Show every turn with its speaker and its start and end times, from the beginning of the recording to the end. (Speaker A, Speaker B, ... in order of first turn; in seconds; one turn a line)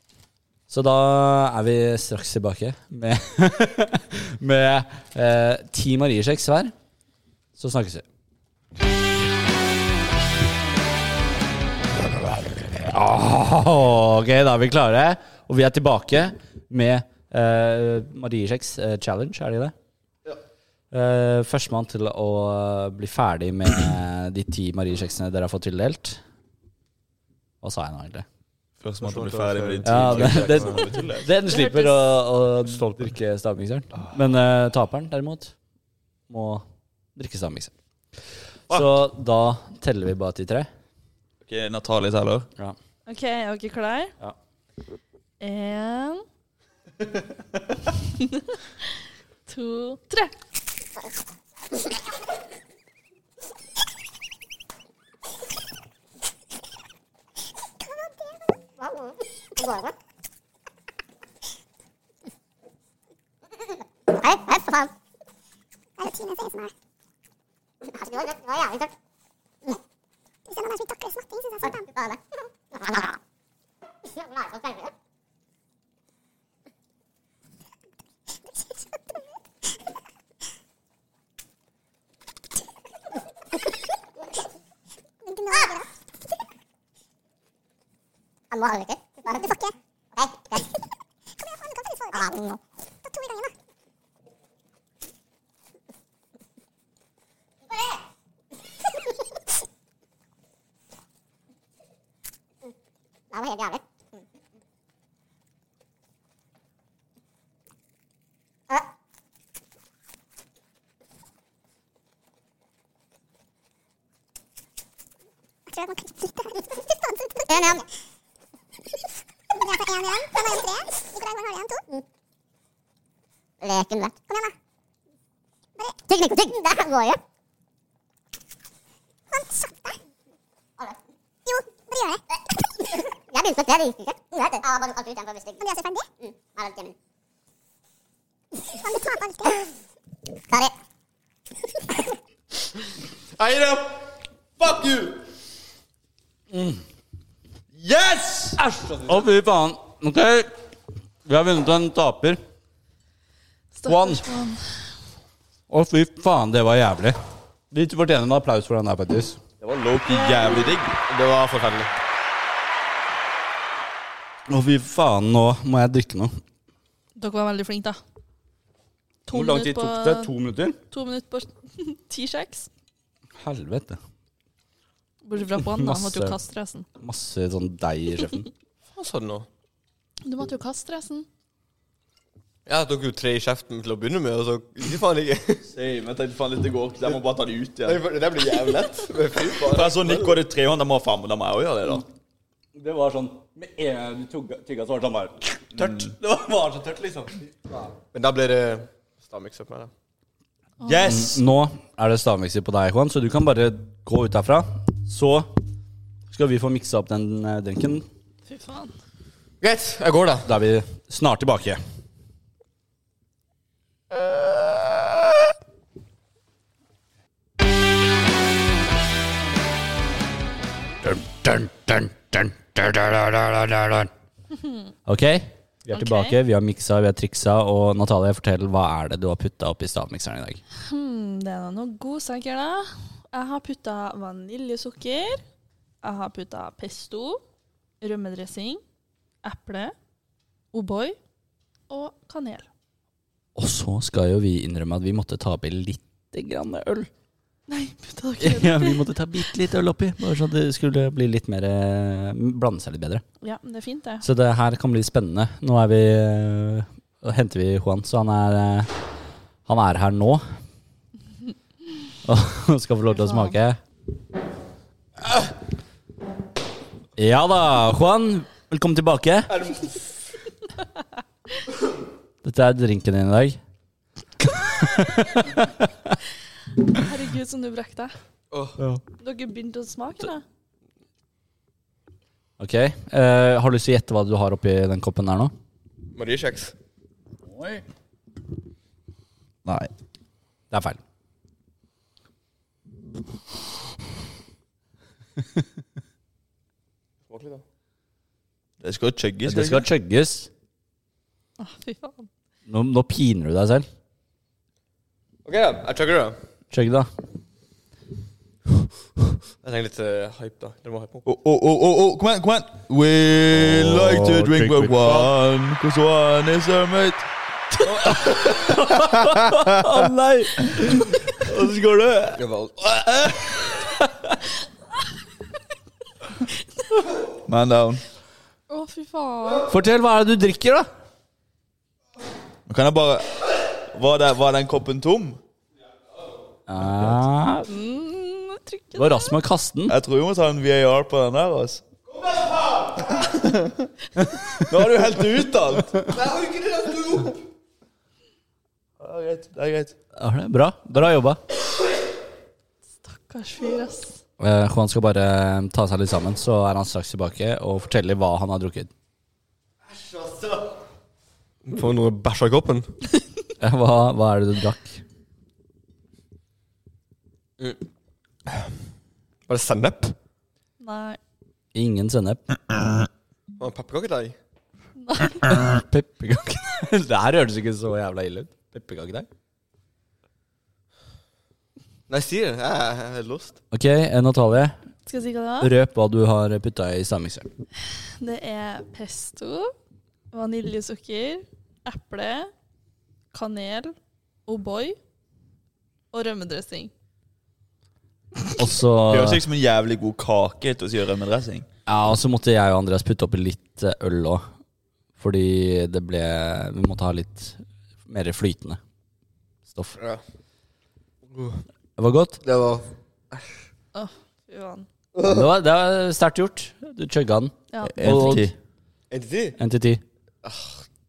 Speaker A: 0.7-6.7
Speaker A: 7.6-8.1
Speaker A: 12.6-19.8
Speaker A: 20.9-26.2
Speaker A: 27.6-28.2
Speaker B: 28.8-31.3
Speaker C: 29.0-31.1
Speaker A: 29.8-35.5
Speaker D: 31.4-32.1
Speaker B: 32.8-33.0
Speaker A: 36.3-36.6
Speaker A: 37.2-37.7
Speaker A: 38.7-40.7
Speaker B: 41.4-42.5
Speaker D: 43.1-44.1
Speaker D: 45.4-46.2
Speaker D: 48.2-48.9
Speaker D: 49.5-50.3
Speaker E: 57.9-59.9
Speaker E: 64.1-64.9
Speaker E: 66.0-66.7
Speaker E: 67.8-68.9
Speaker E: 70.5-72.2
Speaker E: 72.7-73.2
Speaker E: 74.1-74.9
Speaker E: 85.2-85.9
Speaker E: 88.5-90.7
Speaker E: 91.4-93.5
Speaker E: 97.7-98.0
Speaker E: 103.3-103.8
Speaker E: 115.7-117.8
Speaker E: 119.5-122.0
Speaker E: 123.6-124.5
Speaker E: 125.8-127.2
Speaker E: 129.3-130.0
Speaker E: 130.8-136.9
Speaker E: 138.7-139.7
Speaker C: 143.4-144.0
Speaker B: 144.6-145.2
Speaker A: 146.5-146.8
Speaker B: 147.7-148.6
Speaker A: 148.6-150.5
Speaker A: 151.2-152.4
Speaker D: 153.7-154.6
Speaker A: 153.9-154.2
Speaker A: 155.7-157.2
Speaker A: 157.7-159.4
Speaker B: 159.6-161.0
Speaker D: 160.1-160.8
Speaker C: 161.1-161.9
Speaker A: 164.5-166.4
Speaker D: 167.2-168.0
Speaker D: 169.3-170.3
Speaker A: 169.3-170.8
Speaker D: 170.9-172.7
Speaker A: 173.4-174.0
Speaker D: 175.2-176.9
Speaker A: 175.6-176.4
Speaker A: 177.0-178.5
Speaker C: 178.9-179.5
Speaker D: 180.2-181.3
Speaker C: 182.7-185.7
Speaker B: 185.7-188.0
Speaker C: 187.8-190.4
Speaker B: 189.6-192.1
Speaker A: 192.8-197.8
Speaker B: 195.8-196.1
Speaker C: 198.1-199.9
Speaker D: 200.8-201.2
Speaker B: 200.8-201.4
Speaker A: 201.0-205.5
Speaker A: 206.3-208.1
Speaker D: 208.5-208.9
Speaker C: 209.6-210.5
Speaker A: 210.4-211.8
Speaker C: 214.1-214.8
Speaker A: 221.0-224.1
Speaker A: 225.1-230.6
Speaker D: 225.9-226.4
Speaker D: 230.9-235.4
Speaker D: 236.0-237.4
Speaker D: 238.0-238.8
Speaker D: 239.4-239.9
Speaker D: 240.7-241.2
Speaker D: 241.9-242.7
Speaker A: 243.6-247.1
Speaker D: 247.7-249.0
Speaker A: 248.4-253.2
Speaker D: 253.4-254.3
Speaker A: 254.2-258.9
Speaker A: 259.7-260.5
Speaker A: 262.2-263.8
Speaker D: 263.2-263.6
Speaker A: 267.2-269.5
Speaker C: 269.5-270.2
Speaker A: 272.4-273.6
Speaker A: 274.6-276.2
Speaker D: 276.9-278.1
Speaker C: 278.5-278.8
Speaker D: 279.2-280.4
Speaker A: 282.6-285.5
Speaker C: 286.1-286.7
Speaker B: 289.6-289.9
Speaker A: 290.7-291.0
Speaker C: 297.3-297.6
Speaker B: 298.8-299.9
Speaker A: 299.4-300.5
Speaker D: 301.6-302.3
Speaker A: 302.7-303.9
Speaker C: 305.4-306.4
Speaker A: 306.7-307.1
Speaker C: 309.6-311.2
Speaker B: 311.3-317.3
Speaker A: 313.5-315.3
Speaker A: 317.9-321.7
Speaker B: 321.4-322.4
Speaker C: 322.4-322.8
Speaker B: 323.0-323.3
Speaker B: 327.4-328.0
Speaker D: 328.7-329.7
Speaker A: 329.7-330.9
Speaker B: 332.7-335.4
Speaker A: 336.7-337.7
Speaker D: 337.7-339.4
Speaker A: 338.9-340.0
Speaker B: 339.9-341.8
Speaker B: 344.6-346.2
Speaker C: 346.1-347.4
Speaker B: 349.0-349.9
Speaker A: 350.2-351.4
Speaker D: 353.0-354.2
Speaker A: 354.4-358.9
Speaker C: 360.0-360.6
Speaker C: 361.6-362.9
Speaker A: 363.6-365.0
Speaker C: 369.5-370.2
Speaker D: 370.8-371.2
Speaker A: 371.7-372.4
Speaker C: 373.6-374.4
Speaker D: 375.0-375.5
Speaker A: 375.4-379.3
Speaker C: 382.1-383.6
Speaker A: 383.7-384.8
Speaker D: 385.1-385.7
Speaker A: 385.6-387.5
Speaker D: 388.2-389.7
Speaker D: 390.3-392.5
Speaker D: 393.3-393.9
Speaker D: 394.5-395.0
Speaker D: 396.1-396.9
Speaker A: 398.6-399.4
Speaker B: 399.1-401.7
Speaker A: 401.9-404.4
Speaker A: 405.2-408.8
Speaker A: 409.7-410.0
Speaker C: 411.3-411.6
Speaker A: 412.0-412.4
Speaker C: 412.4-413.4
Speaker D: 413.9-414.9
Speaker C: 415.2-415.4
Speaker A: 415.2-418.5
Speaker D: 417.7-418.4
Speaker B: 417.9-418.6
Speaker C: 419.1-419.6
Speaker A: 419.6-420.0
Speaker C: 420.4-420.8